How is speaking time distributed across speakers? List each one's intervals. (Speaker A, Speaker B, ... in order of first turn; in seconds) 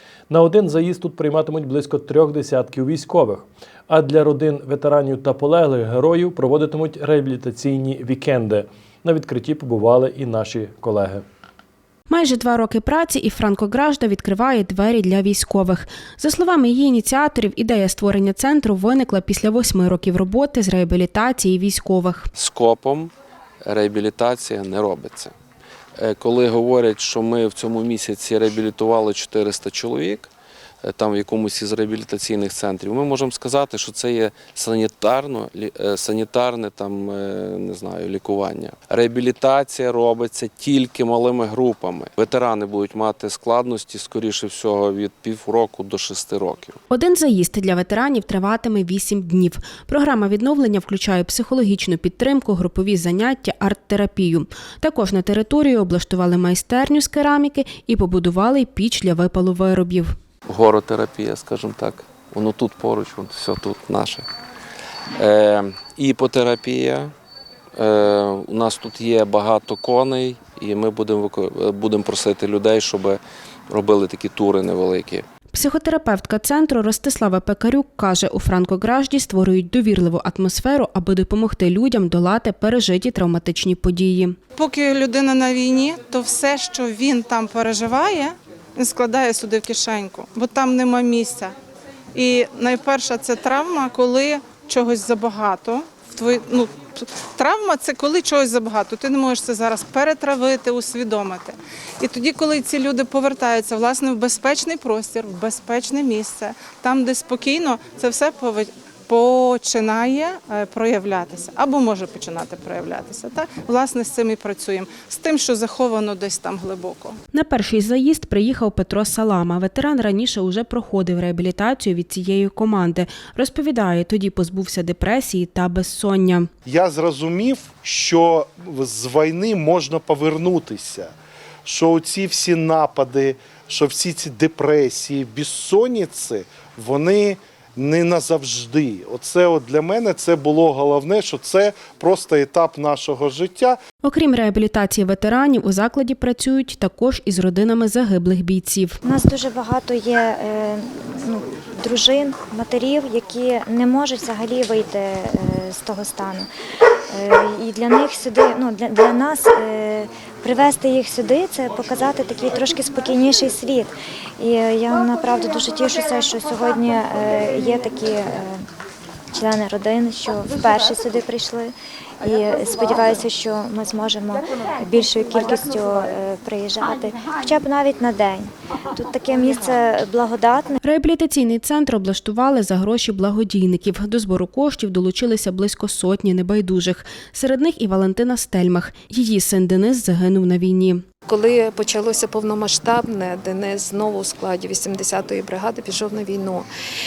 Speaker A: 0.3-11.2
Speaker B: 12.1-22.3, 46.9-60.1, 75.5-84.3, 117.3-126.5, 144.0-149.0, 180.8-191.0
Speaker C: 22.3-23.1, 23.6-25.3, 26.0-30.3, 30.8-46.8, 60.5-64.3, 65.2-67.1, 67.7-75.2
Speaker D: 84.5-91.5, 92.1-117.2
Speaker E: 126.7-131.1, 131.7-143.8
Speaker F: 149.0-156.5, 157.1-168.6, 169.3-180.8
Speaker G: 191.3-196.7